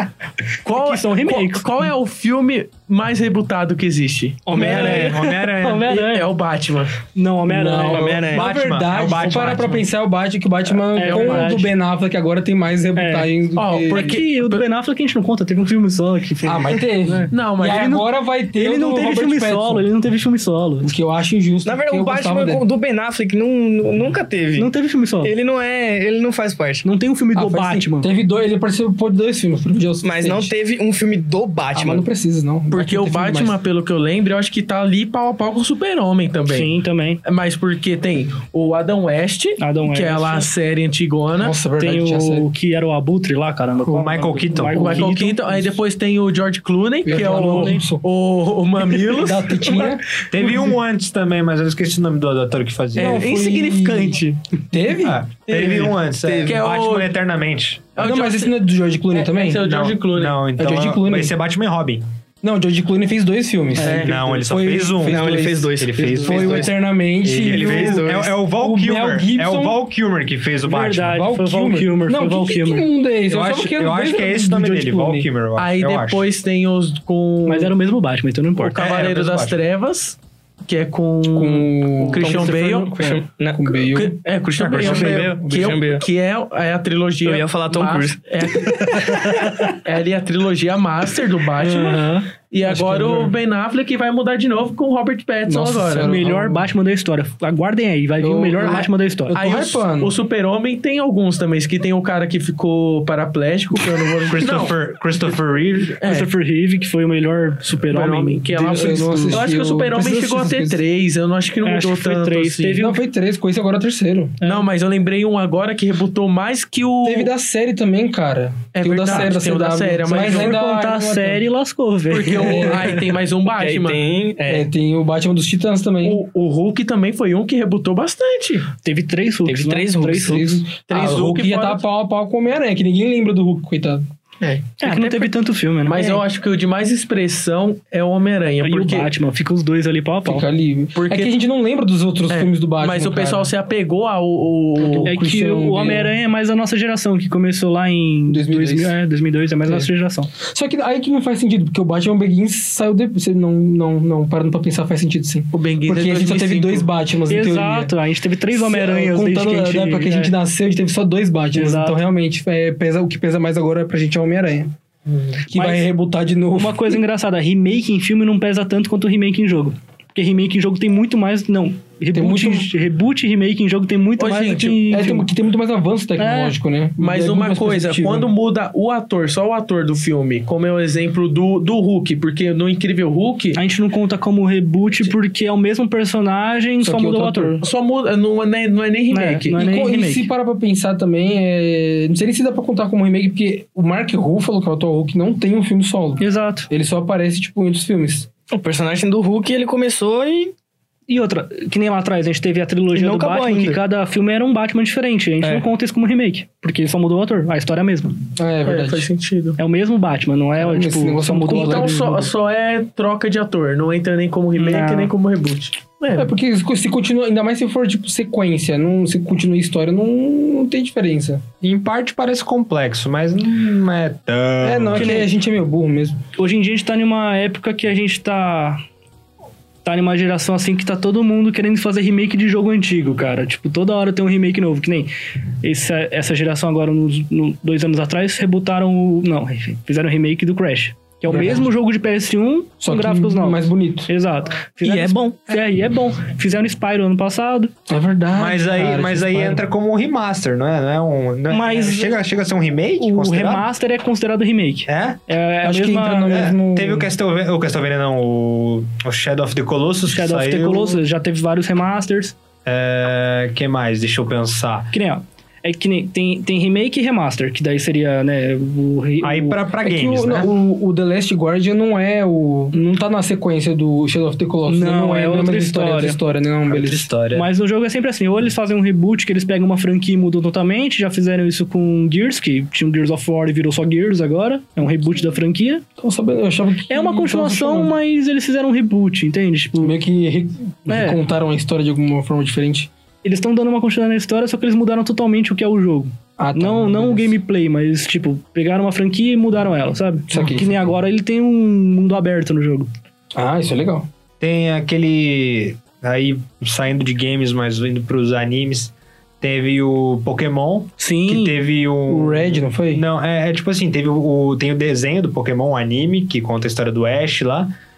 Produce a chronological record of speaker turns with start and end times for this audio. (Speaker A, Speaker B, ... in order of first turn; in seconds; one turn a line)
Speaker A: 0.6-4.7
Speaker B: 0.7-1.7
Speaker B: 4.5-6.3
Speaker C: 4.5-5.1
Speaker D: 4.5-6.0
Speaker A: 5.9-7.0
Speaker B: 7.1-8.2
Speaker E: 7.5-14.2
Speaker C: 7.9-8.5
Speaker D: 8.3-9.8
Speaker A: 9.0-9.8
Speaker B: 10.9-11.7
Speaker A: 11.0-11.5
Speaker B: 12.9-13.3
Speaker A: 13.6-14.6
Speaker B: 13.9-20.9
Speaker E: 16.4-19.9
Speaker A: 17.3-17.9
Speaker E: 20.8-22.6
Speaker C: 21.6-24.7
Speaker B: 24.6-25.3
Speaker C: 25.2-26.9
Speaker B: 26.8-28.1
Speaker E: 27.3-30.5
Speaker C: 30.0-32.0
Speaker E: 31.7-33.6
Speaker A: 32.7-36.7
Speaker B: 36.5-37.2
Speaker A: 37.2-41.6
Speaker B: 39.6-40.5
Speaker E: 41.4-42.5
Speaker B: 41.8-45.7
Speaker D: 43.9-45.1
Speaker A: 44.7-50.0
Speaker E: 47.0-48.0
Speaker B: 47.1-47.9
Speaker E: 49.0-50.2
Speaker D: 50.3-53.2
Speaker E: 53.0-54.2
Speaker A: 53.0-54.4
Speaker E: 54.7-55.2
Speaker D: 55.0-58.0
Speaker A: 55.5-57.1
Speaker C: 55.6-56.6
Speaker A: 58.0-58.6
Speaker E: 58.0-59.6
Speaker A: 59.1-60.4
Speaker D: 59.6-62.0
Speaker E: 60.6-61.3
Speaker E: 62.4-69.8
Speaker B: 63.8-64.1
Speaker C: 63.8-64.2
Speaker D: 63.9-66.7
Speaker C: 65.0-66.7
Speaker C: 67.2-68.3
Speaker D: 67.3-71.2
Speaker B: 70.6-72.9
Speaker E: 71.0-75.3
Speaker D: 73.3-76.2
Speaker A: 75.6-77.7
Speaker B: 77.5-78.8
Speaker A: 78.5-83.0
Speaker D: 78.7-79.6
Speaker E: 81.3-82.5
Speaker B: 82.1-83.2
Speaker C: 82.2-83.7
Speaker E: 83.5-84.2
Speaker A: 83.8-96.2
Speaker D: 84.6-85.4
Speaker E: 84.8-85.8
Speaker C: 84.8-86.0
Speaker C: 87.2-89.4
Speaker B: 88.8-89.8
Speaker B: 91.6-92.3
Speaker E: 92.7-93.3
Speaker E: 95.5-96.7
Speaker B: 96.0-99.4
Speaker E: 98.2-100.1
Speaker A: 98.6-104.8
Speaker D: 104.3-106.0
Speaker A: 105.9-106.3
Speaker B: 106.0-109.4
Speaker A: 107.8-112.8
Speaker E: 108.5-110.8
Speaker B: 111.6-113.0
Speaker E: 112.8-114.4
Speaker A: 114.4-117.3
Speaker E: 117.0-121.4
Speaker A: 118.7-120.6
Speaker B: 120.1-123.0
Speaker A: 122.1-124.0
Speaker E: 122.4-122.8
Speaker C: 123.5-124.7
Speaker E: 124.5-126.2
Speaker A: 126.0-128.7
Speaker B: 128.8-130.6
Speaker C: 129.4-130.4
Speaker E: 130.2-134.1
Speaker A: 130.9-131.8
Speaker A: 134.4-135.3
Speaker B: 134.8-136.2
Speaker A: 135.8-139.1
Speaker B: 138.6-140.4
Speaker E: 140.2-143.5
Speaker A: 140.9-141.3
Speaker A: 142.3-145.1
Speaker E: 144.8-146.1
Speaker B: 145.0-150.3
Speaker E: 148.3-148.9
Speaker E: 150.4-157.9
Speaker A: 155.5-156.9
Speaker B: 157.3-160.3
Speaker E: 158.5-164.7
Speaker B: 161.5-162.0
Speaker A: 165.1-165.7
Speaker E: 165.5-167.0
Speaker B: 165.6-165.8
Speaker B: 166.5-175.2
Speaker E: 172.2-172.7
Speaker A: 174.2-175.2
Speaker E: 174.9-178.3
Speaker B: 176.2-176.6
Speaker A: 177.0-183.6
Speaker B: 183.5-187.6
Speaker E: 186.8-187.6
Speaker A: 187.6-189.6
Speaker B: 189.1-190.3
Speaker E: 189.5-198.3
Speaker B: 196.2-196.7
Speaker C: 198.5-200.5
Speaker B: 201.1-208.2
Speaker C: 202.9-203.8
Speaker E: 208.4-209.0
Speaker A: 208.6-209.6
Speaker B: 209.6-212.3
Speaker E: 210.6-212.2
Speaker A: 211.5-216.3
Speaker B: 214.6-215.1
Speaker E: 216.2-221.4
Speaker D: 221.6-225.2
Speaker E: 224.6-226.2
Speaker B: 225.0-225.3
Speaker B: 226.4-228.8
Speaker B: 229.8-235.1
Speaker B: 235.6-247.7
Speaker E: 241.3-241.7
Speaker E: 242.8-244.1
Speaker D: 244.8-245.6
Speaker E: 247.9-249.6
Speaker D: 248.3-253.7
Speaker B: 251.5-252.2
Speaker B: 253.0-256.5
Speaker D: 254.9-255.2
Speaker E: 255.6-257.1
Speaker D: 256.3-261.0
Speaker B: 260.1-262.3
Speaker D: 262.6-264.9
Speaker B: 264.9-269.6
Speaker D: 269.2-270.5
Speaker E: 269.8-277.1
Speaker B: 274.6-276.2
Speaker D: 276.7-277.5
Speaker B: 277.3-285.8
Speaker E: 286.0-287.9
Speaker B: 286.9-289.9
Speaker E: 289.8-292.9
Speaker B: 290.9-291.2
Speaker B: 293.2-302.9
Speaker E: 296.4-297.3
Speaker E: 300.3-300.8
Speaker E: 303.3-304.1
Speaker D: 304.4-317.7
Speaker B: 311.0-311.6
Speaker E: 312.1-313.0